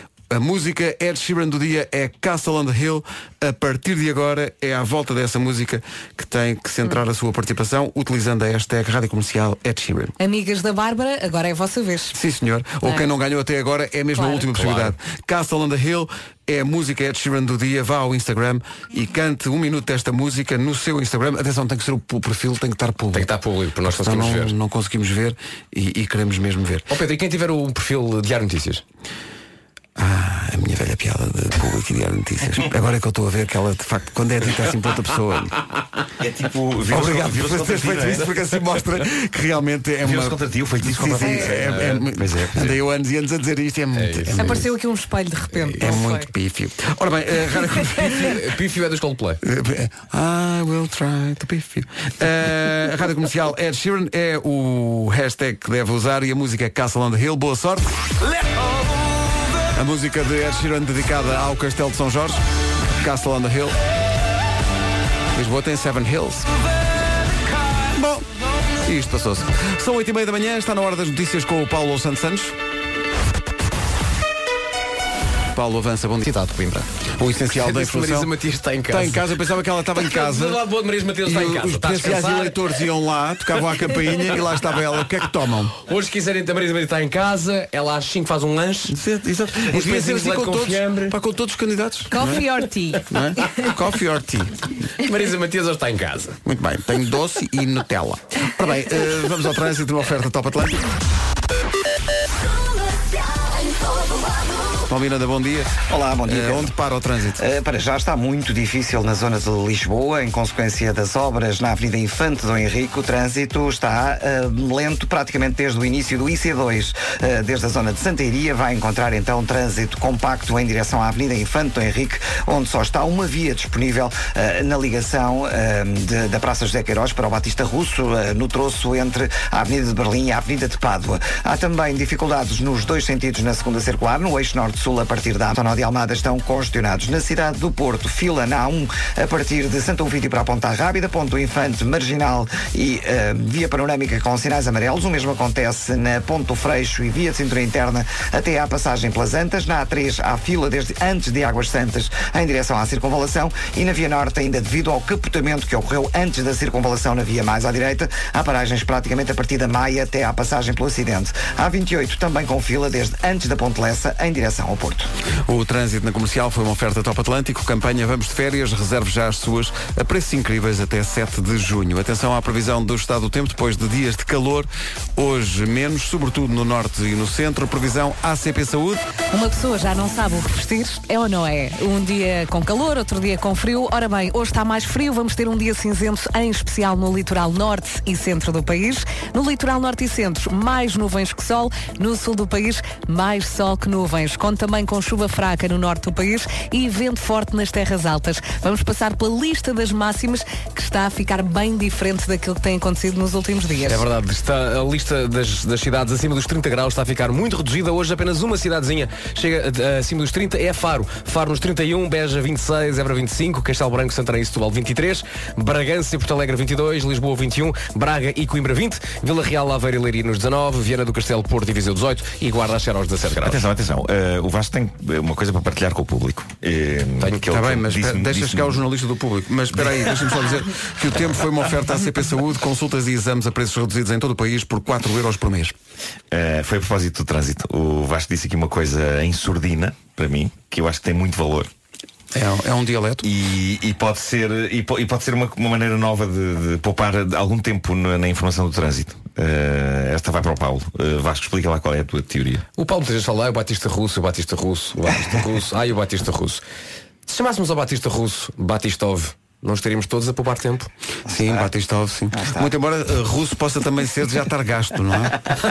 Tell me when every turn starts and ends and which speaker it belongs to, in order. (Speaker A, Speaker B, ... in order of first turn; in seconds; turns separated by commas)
Speaker A: 0.3-10.1, Speaker B: 10.2-12.2, Speaker A: 12.1-23.3, Speaker B: 14.2-14.4, Speaker C: 14.5-14.9, Speaker C: 23.1-24.5, Speaker A: 23.9-26.9, Speaker C: 26.9-28.8, Speaker A: 30.0-35.5, Speaker D: 36.2-38.3, Speaker A: 36.9-44.7, Speaker D: 40.0-42.8, Speaker B: 41.2-41.5, Speaker C: 41.7-42.0, Speaker C: 44.0-44.6, Speaker B: 44.4-46.3, Speaker A: 45.8-48.4, Speaker C: 48.1-49.4, Speaker A: 49.4-58.0, Speaker A: 59.7-62.4, Speaker A: 63.0-63.8, Speaker A: 65.3-66.5, Speaker A: 67.9-68.3, Speaker A: 68.8-72.6, Speaker A: 75.5-76.3, Speaker A: 77.1-78.3, Speaker C: 77.5-79.3, Speaker A: 78.9-80.6, Speaker C: 80.0-82.8, Speaker A: 81.2-85.8, Speaker C: 84.1-84.4, Speaker C: 85.8-89.0, Speaker A: 88.9-92.4, Speaker C: 89.7-91.2, Speaker B: 92.1-93.6, Speaker A: 93.1-94.6, Speaker C: 95.0-96.4, Speaker A: 96.5-100.8, Speaker A: 104.8-107.5, Speaker E: 105.9-106.7, Speaker E: 107.4-165.1, Speaker A: 165.5-179.0, Speaker B: 179.3-204.0, Speaker C: 203.8-223.6, Speaker D: 223.4-228.8, Speaker A: 227.5-235.8, Speaker D: 236.3-241.7, Speaker A: 242.3-243.3, Speaker D: 243.2-252.6, Speaker C: 252.8-256.6, Speaker C: 257.3-260.9, Speaker A: 261.3-265.4, Speaker E: 262.4-262.7